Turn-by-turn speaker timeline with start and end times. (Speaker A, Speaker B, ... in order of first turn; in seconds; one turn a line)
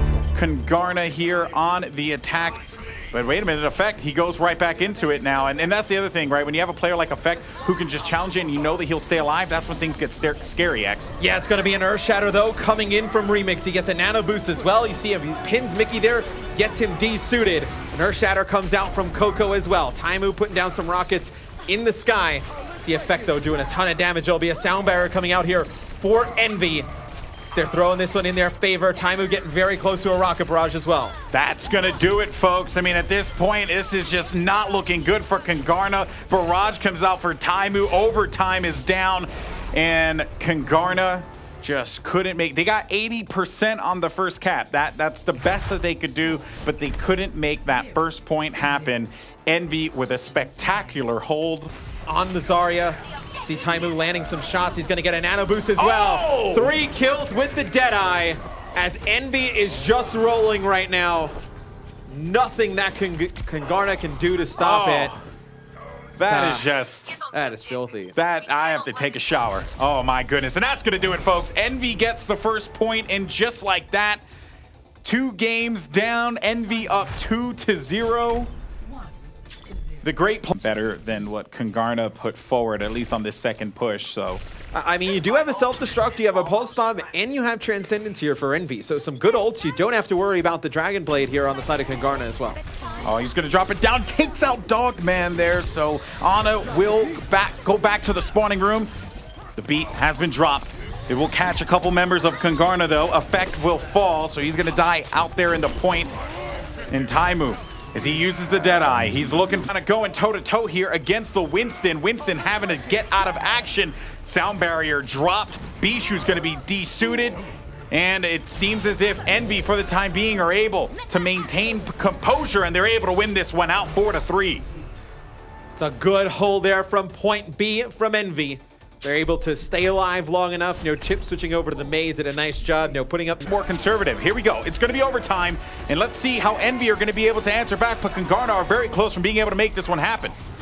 Speaker A: 0.3-11.1
Speaker B: 11.2-26.9
Speaker B: 27.5-31.2
Speaker A: 31.3-51.7
Speaker B: 52.1-61.4
Speaker A: 55.8-56.7
Speaker B: 62.1-65.1
Speaker A: 64.6-65.2
Speaker B: 66.2-66.7
Speaker A: 66.2-67.2
Speaker B: 67.2-68.2
Speaker A: 68.1-74.2
Speaker A: 75.0-78.5
Speaker A: 80.0-84.4
Speaker B: 84.7-92.6
Speaker A: 93.0-98.9
Speaker A: 99.6-106.1
Speaker A: 106.9-124.7
Speaker B: 125.8-133.4
Speaker A: 133.4-140.3